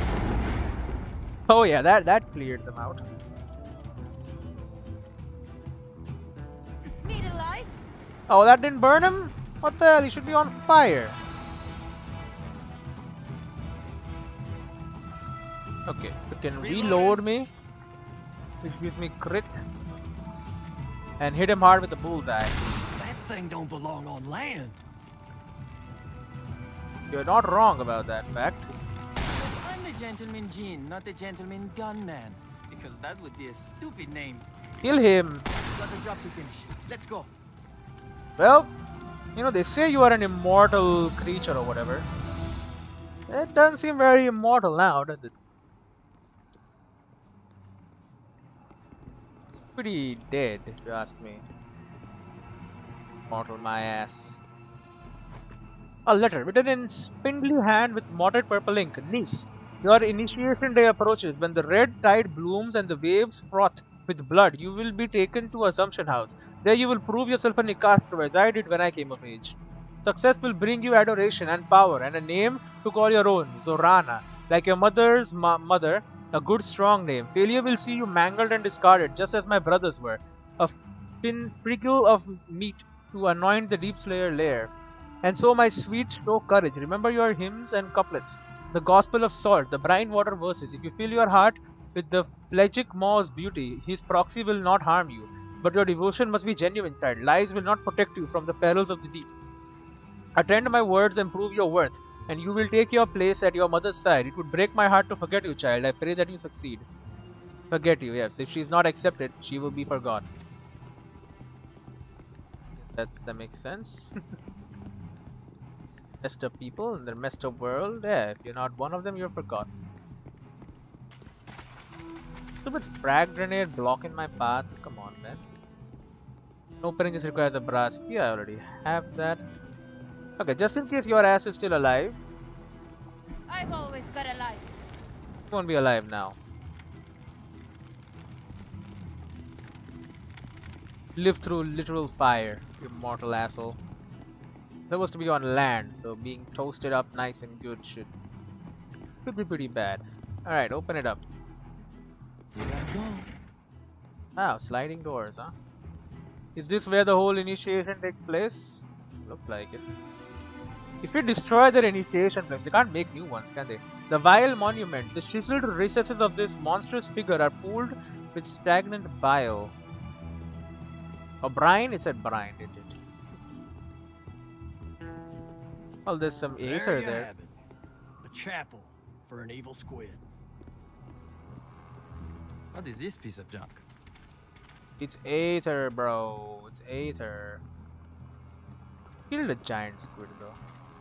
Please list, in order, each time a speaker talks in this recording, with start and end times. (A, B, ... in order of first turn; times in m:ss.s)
0:01.5-0:03.0 A
0:07.0-0:07.8 B
0:08.3-0:11.2 A
0:15.9-0:17.5 A
0:16.6-0:17.2 C
0:18.6-0:19.5 A
0:21.2-0:22.6 A
0:22.9-0:24.8 C
0:27.1-0:28.7 A
0:29.3-0:34.5 D
0:34.8-0:35.4 A
0:35.6-0:37.3 D
0:38.4-0:38.7 A
0:39.4-0:42.1 A
0:43.3-0:45.3 A
0:49.8-0:51.5 A
0:53.3-0:54.4 A
0:56.1-1:24.7 A
1:25.2-1:39.3 A
1:40.4-1:46.9 A
1:47.7-1:50.3 A
1:52.9-1:54.1 A
1:56.2-1:59.7 A
2:02.6-2:05.4 A
2:06.8-2:09.4 A
2:10.4-2:12.2 A
2:13.5-2:14.8 B
2:15.5-2:16.4 A
2:21.2-2:23.8 A
2:24.9-2:28.1 A
2:29.2-2:31.2 A
2:32.6-2:33.3 D
2:34.4-2:35.5 A
2:36.6-2:39.8 A
2:41.0-2:49.7 A
2:51.4-2:53.0 A
2:56.1-2:57.3 A
2:56.6-2:57.6 C
2:58.2-3:00.2 C
3:02.7-3:03.8 D
3:05.0-3:07.6 A
3:09.3-3:10.6 A